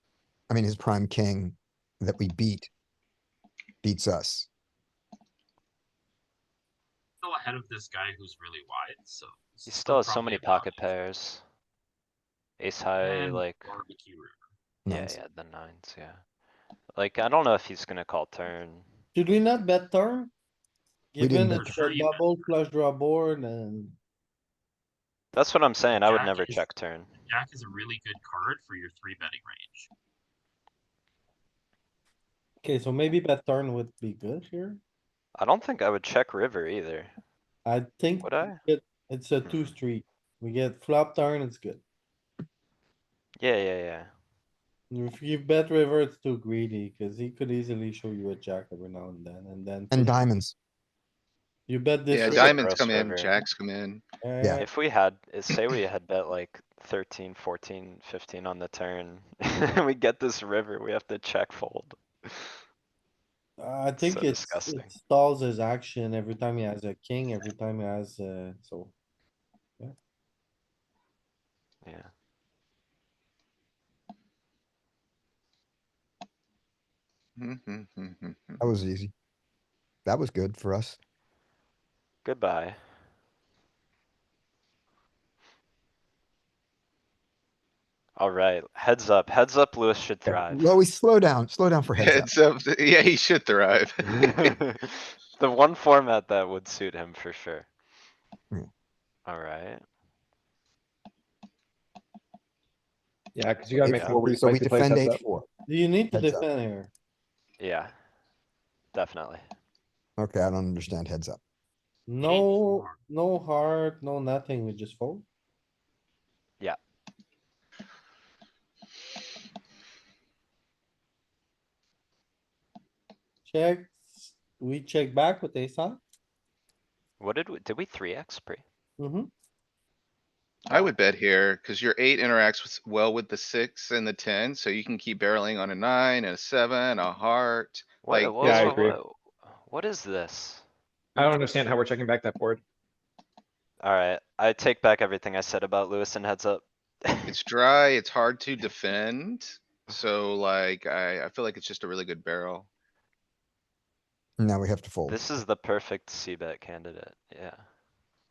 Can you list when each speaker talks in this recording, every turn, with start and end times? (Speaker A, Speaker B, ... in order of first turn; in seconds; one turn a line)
Speaker A: 0.5-2.7
Speaker A: 3.8-4.5
Speaker B: 7.2-10.9
Speaker C: 9.7-11.4
Speaker C: 12.6-13.8
Speaker B: 13.0-14.4
Speaker A: 14.9-15.2
Speaker C: 14.9-16.2
Speaker C: 16.9-18.9
Speaker D: 19.1-20.3
Speaker D: 21.1-24.0
Speaker A: 21.2-21.8
Speaker B: 21.5-22.6
Speaker C: 25.3-27.1
Speaker B: 25.9-26.7
Speaker B: 27.2-29.9
Speaker D: 32.6-34.8
Speaker C: 35.4-37.1
Speaker D: 37.7-41.8
Speaker C: 38.2-38.6
Speaker C: 39.4-39.7
Speaker C: 43.4-44.1
Speaker D: 44.9-50.2
Speaker A: 49.9-50.5
Speaker D: 51.7-52.6
Speaker E: 52.1-54.0
Speaker C: 52.2-53.4
Speaker D: 54.2-54.7
Speaker C: 54.6-62.5
Speaker D: 63.6-68.9
Speaker C: 64.0-64.9
Speaker E: 77.4-78.6
Speaker A: 78.6-79.1
Speaker A: 80.0-81.0
Speaker C: 82.2-82.8
Speaker C: 88.2-90.7
Speaker A: 90.3-92.3
Speaker E: 92.0-94.6
Speaker C: 94.0-97.7
Speaker C: 99.3-99.8
Speaker F: 103.3-105.2
Speaker A: 103.8-105.5
Speaker C: 103.9-104.2
Speaker D: 105.7-106.9
Speaker A: 106.1-106.4
Speaker C: 107.6-107.9
Speaker C: 108.9-109.4
Speaker A: 110.2-111.4
Speaker D: 112.1-115.2
Speaker B: 112.2-113.0
Speaker D: 123.5-126.0
Speaker C: 127.2-128.6
Speaker D: 129.0-129.3
Speaker E: 130.7-138.8
Speaker C: 138.0-140.6
Speaker F: 138.4-139.0
Speaker F: 141.2-142.6
Speaker C: 143.8-147.3
Speaker E: 147.2-152.7
Speaker A: 154.4-155.2
Speaker C: 155.1-157.6